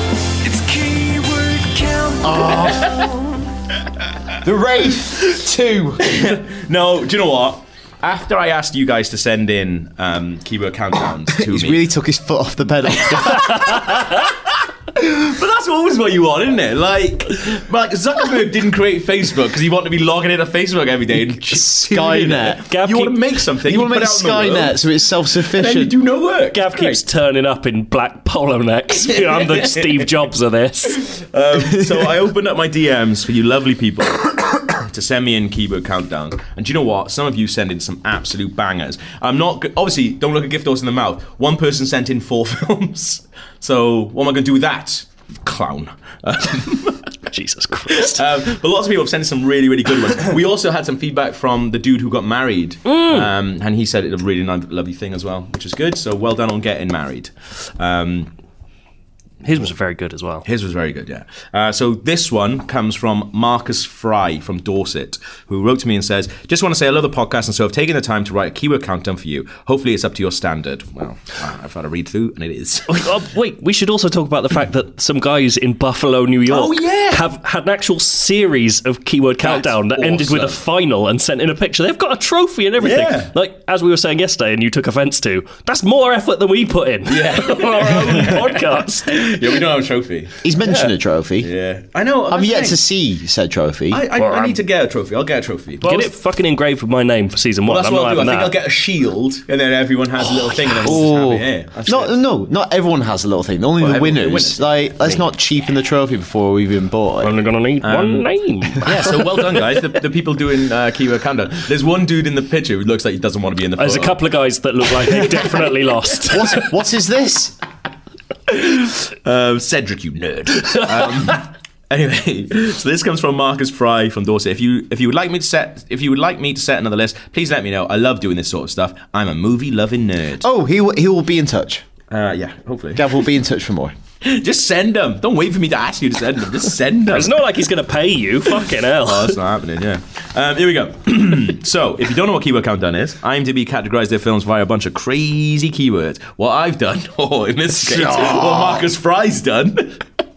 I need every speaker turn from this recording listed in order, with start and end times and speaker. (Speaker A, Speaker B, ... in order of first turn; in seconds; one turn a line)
Speaker A: 0.4-3.2
Speaker B: 2.2-3.2
Speaker B: 4.4-6.2
Speaker C: 6.0-11.8
Speaker B: 11.3-13.8
Speaker C: 12.9-27.0
Speaker B: 21.4-22.6
Speaker D: 22.7-23.2
Speaker B: 23.6-25.9
Speaker D: 26.5-31.1
Speaker C: 29.1-30.1
Speaker C: 30.9-47.1
Speaker B: 31.6-32.1
Speaker D: 47.3-48.2
Speaker C: 47.9-58.3
Speaker D: 52.9-53.3
Speaker D: 59.4-60.5
Speaker C: 60.4-73.3
Speaker D: 72.9-89.4
Speaker C: 76.5-77.3
Speaker C: 79.4-80.6
Speaker C: 82.8-83.3
Speaker C: 87.1-90.4
Speaker B: 90.4-91.5
Speaker C: 91.4-92.8
Speaker B: 92.3-94.0
Speaker C: 93.9-96.1
Speaker D: 94.1-94.6
Speaker D: 95.8-98.5
Speaker C: 97.7-102.2
Speaker D: 100.4-101.0
Speaker B: 100.8-107.3
Speaker C: 103.8-104.6
Speaker D: 107.2-109.4
Speaker C: 107.8-114.2
Speaker B: 108.9-109.1
Speaker D: 113.8-116.7
Speaker B: 116.3-117.5
Speaker C: 118.5-130.4
Speaker D: 120.7-121.1
Speaker B: 130.4-131.8
Speaker C: 132.1-133.2
Speaker B: 132.9-133.9
Speaker C: 134.2-137.4
Speaker D: 137.1-139.4
Speaker C: 138.5-150.0
Speaker B: 147.8-148.9